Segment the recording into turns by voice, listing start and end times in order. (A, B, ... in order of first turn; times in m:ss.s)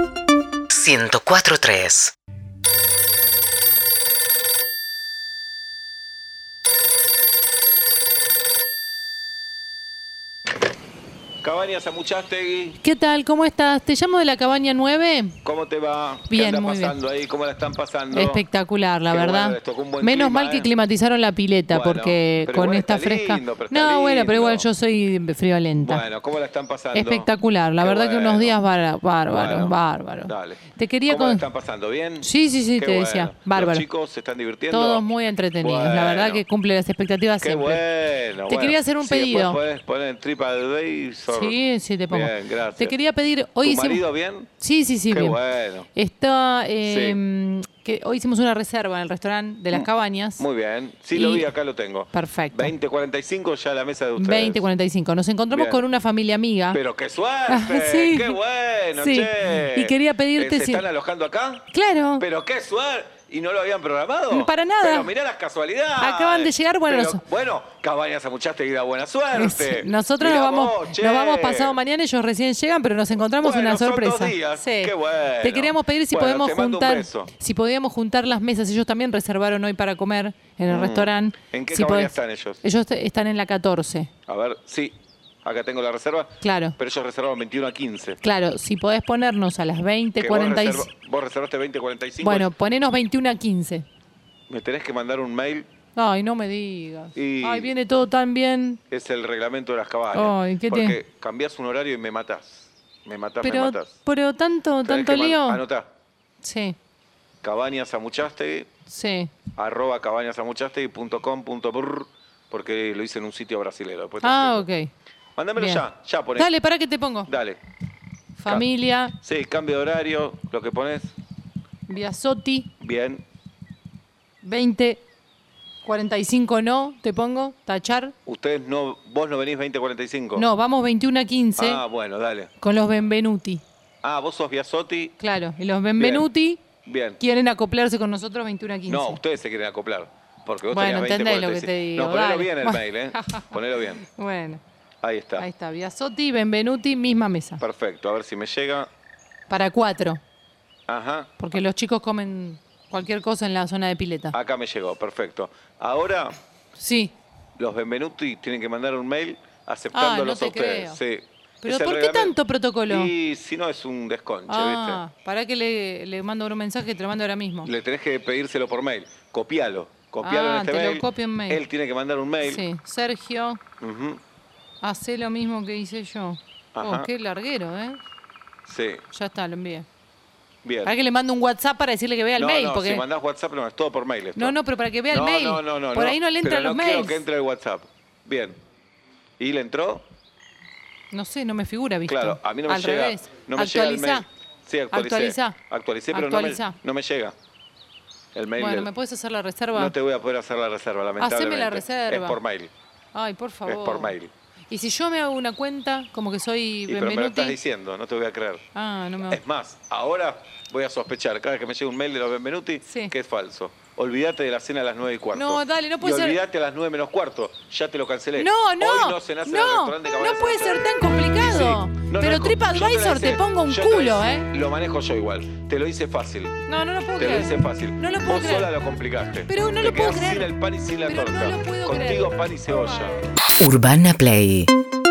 0:00.7-0:02.1 A
0:11.4-0:12.8 B
0:12.8-0:15.4 C
0:15.4-0:18.4 B
0:16.3-0:17.0 C
0:18.1-0:26.0 C
0:19.1-0:20.7 B
0:21.7-0:24.7 B
0:25.8-0:27.3 B
0:26.9-0:31.4 C
0:27.8-0:28.6 B
0:29.3-0:35.0 B
0:32.2-0:33.8 C
0:34.7-0:37.8 C
0:35.6-0:36.4 B
0:37.4-0:41.6 B
0:38.4-0:39.6 C
0:41.3-0:44.0 C
0:42.1-0:42.9 B
0:43.6-0:44.5 B
0:44.6-0:45.4 C
0:45.1-0:45.9 B
0:45.9-0:50.4 C
0:46.8-0:47.2 B
0:49.7-0:54.6 B
0:51.1-0:51.4 C
0:52.1-0:52.7 C
0:54.2-0:56.8 C
0:55.5-0:55.8 B
0:56.7-1:11.8 B
0:57.5-0:58.4 C
0:59.0-1:00.8 C
1:01.7-1:02.2 C
1:04.3-1:05.1 C
1:06.0-1:07.2 C
1:09.3-1:24.1 C
1:13.4-1:17.3 B
1:20.7-1:22.6 B
1:24.3-1:28.2 B
1:26.4-1:26.7 C
1:28.2-1:30.9 C
1:30.2-1:32.5 B
1:32.2-1:33.8 C
1:34.5-1:35.7 B
1:35.9-1:38.8 C
1:37.1-1:37.7 B
1:38.9-1:44.0 B
1:40.1-1:41.0 C
1:43.4-1:45.6 C
1:44.8-1:45.9 B
1:46.4-1:46.8 C
1:47.4-1:48.7 B
1:48.9-1:49.3 C
1:49.5-1:54.6 B
1:54.2-1:54.9 C
1:55.4-1:56.5 B
1:55.6-1:57.3 C
1:57.2-1:57.6 B
1:58.4-1:59.1 C
1:58.4-2:01.1 B
2:01.9-2:02.7 C
2:02.8-2:03.2 B
2:04.4-2:05.0 C
2:05.8-2:08.1 C
2:08.2-2:10.4 B
2:10.3-2:11.8 C
2:11.6-2:12.5 B
2:12.6-2:13.6 C
2:14.0-2:15.1 B
2:15.2-2:16.6 C
2:16.0-2:16.3 B
2:16.8-2:17.2 B
2:17.2-2:19.2 C
2:18.9-2:24.0 B
2:20.7-2:24.6 C
2:25.0-2:25.4 B
2:25.4-2:27.6 C
2:27.6-2:28.9 B
2:29.5-2:30.2 C
2:30.9-2:31.6 B
2:31.4-2:34.3 C
2:34.3-2:36.4 B
2:36.8-2:37.1 C
2:37.6-2:42.3 B
2:39.9-2:41.0 C
2:41.6-2:43.1 C
2:42.9-2:45.0 B
2:44.5-2:47.7 C
2:47.6-2:52.6 B
2:50.2-2:51.6 C
2:52.4-2:53.6 C
2:53.8-2:54.2 B
2:54.8-2:58.0 C
2:56.7-2:57.1 B
2:58.6-2:59.0 B
2:59.1-2:59.8 C
3:00.6-3:00.9 B
3:00.8-3:03.0 C
3:02.3-3:04.5 B
3:04.4-3:07.2 C
3:05.1-3:08.6 B
3:09.4-3:10.0 B
3:11.1-3:14.2 C
3:12.0-3:17.3 B
3:14.9-3:15.6 C
3:16.1-3:16.8 C
3:18.3-3:18.9 B
3:18.6-3:19.9 C
3:19.7-3:22.7 B
3:21.2-3:22.4 C
3:23.1-3:24.2 C
3:23.7-3:24.3 B
3:24.7-3:27.6 C
3:26.9-3:28.6 B
3:28.7-3:29.4 C
3:29.3-3:46.5 B
3:32.8-3:33.1 C
3:35.3-3:36.4 C
3:38.4-3:44.5 C
3:46.7-3:48.7 C
3:47.2-3:53.2 B
3:49.5-3:53.1 C
3:53.6-3:54.7 A